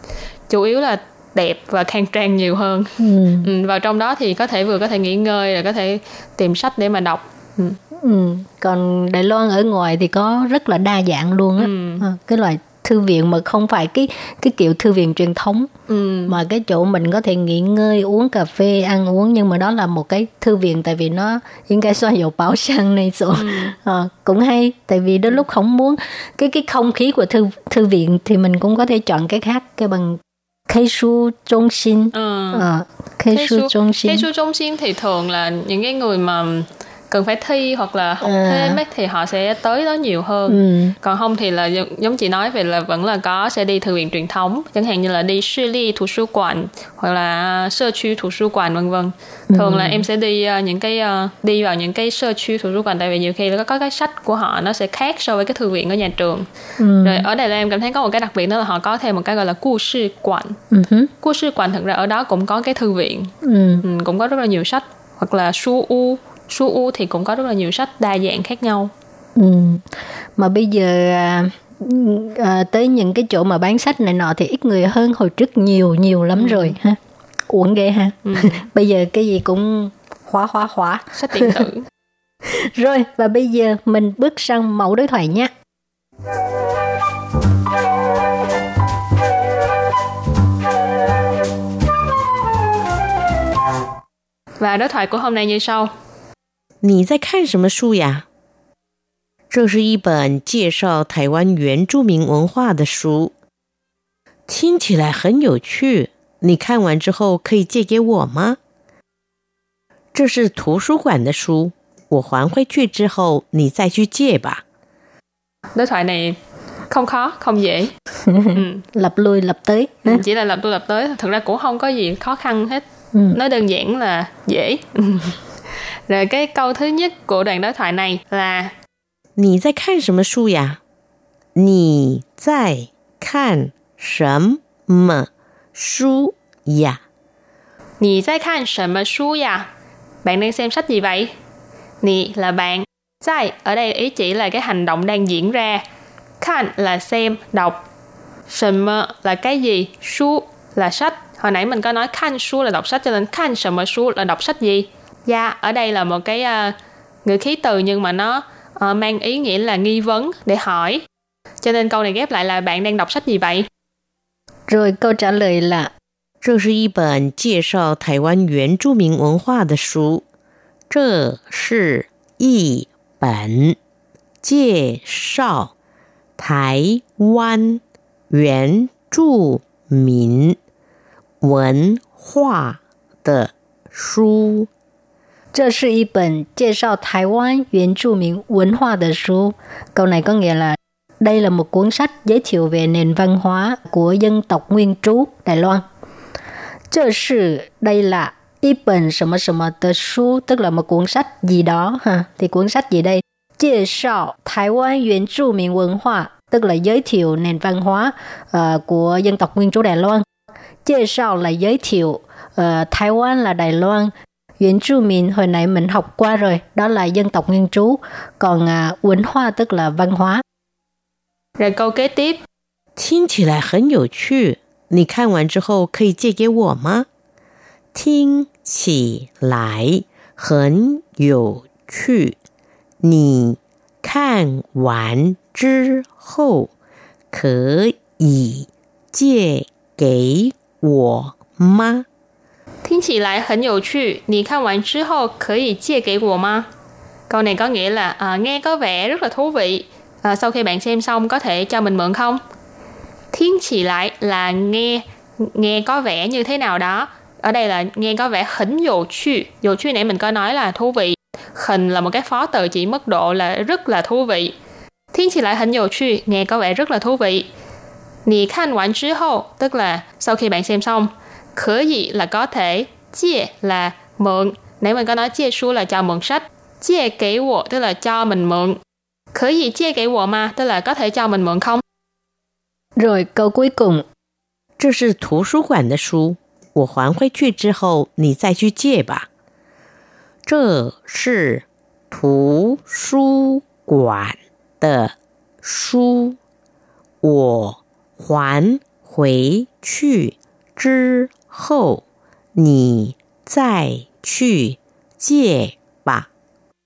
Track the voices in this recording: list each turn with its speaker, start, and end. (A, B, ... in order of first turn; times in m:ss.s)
0:00.5-0:07.8 A
0:03.0-0:03.5 B
0:08.0-0:15.7 B
0:11.6-0:12.0 A
0:15.9-0:16.4 A
0:16.3-0:34.3 B
0:23.3-0:23.8 A
0:32.1-0:32.7 A
0:33.3-0:56.5 A
0:38.2-0:38.8 B
0:40.5-0:40.9 B
0:49.5-0:50.0 B
0:56.8-0:57.3 B
0:57.0-1:00.6 A
1:00.7-1:01.1 B
1:01.2-1:08.9 A
1:03.4-1:03.8 B
1:09.4-1:09.8 B
1:10.4-1:17.0 B
1:16.4-1:16.8 A
1:17.5-1:21.6 B
1:18.2-1:18.6 A
1:21.1-1:21.8 A
1:22.5-1:25.5 B
1:34.6-1:35.9 A
1:36.8-1:38.2 C
1:39.5-1:43.3 C
1:44.5-1:48.6 C
1:50.1-1:54.6 C
1:55.7-1:56.4 A
1:56.9-1:57.9 A
1:58.3-2:00.2 B
1:58.5-1:58.8 A
2:00.0-2:05.4 A
2:03.1-2:03.4 B
2:06.1-2:08.7 A
2:09.4-2:10.8 C
2:11.6-2:17.0 C
2:18.0-2:19.7 A
2:20.2-2:21.3 A
2:22.0-2:25.8 A
2:26.4-2:27.8 A
2:28.5-2:41.0 A
2:41.6-2:43.6 A
2:44.7-2:45.9 B
2:46.4-2:50.2 C
2:50.9-2:53.8 C
2:54.4-2:55.7 C
2:56.4-3:00.6 C
3:01.4-3:04.7 C
3:05.5-3:15.8 B
3:16.9-3:30.2 B
3:30.8-3:40.4 B
3:41.6-3:42.4 A
3:43.0-3:47.1 C
3:47.9-3:52.4 C
3:53.0-3:56.7 C
3:57.3-4:02.0 C
4:02.8-4:06.7 A
4:07.3-4:12.4 A
4:13.3-4:24.5 A
4:25.1-4:27.5 A
4:28.2-4:38.8 A
4:39.3-4:41.8 A
4:43.0-4:44.0 B
4:44.8-4:49.3 C
4:50.4-4:56.4 C
4:57.2-5:02.0 C
5:02.5-5:06.3 C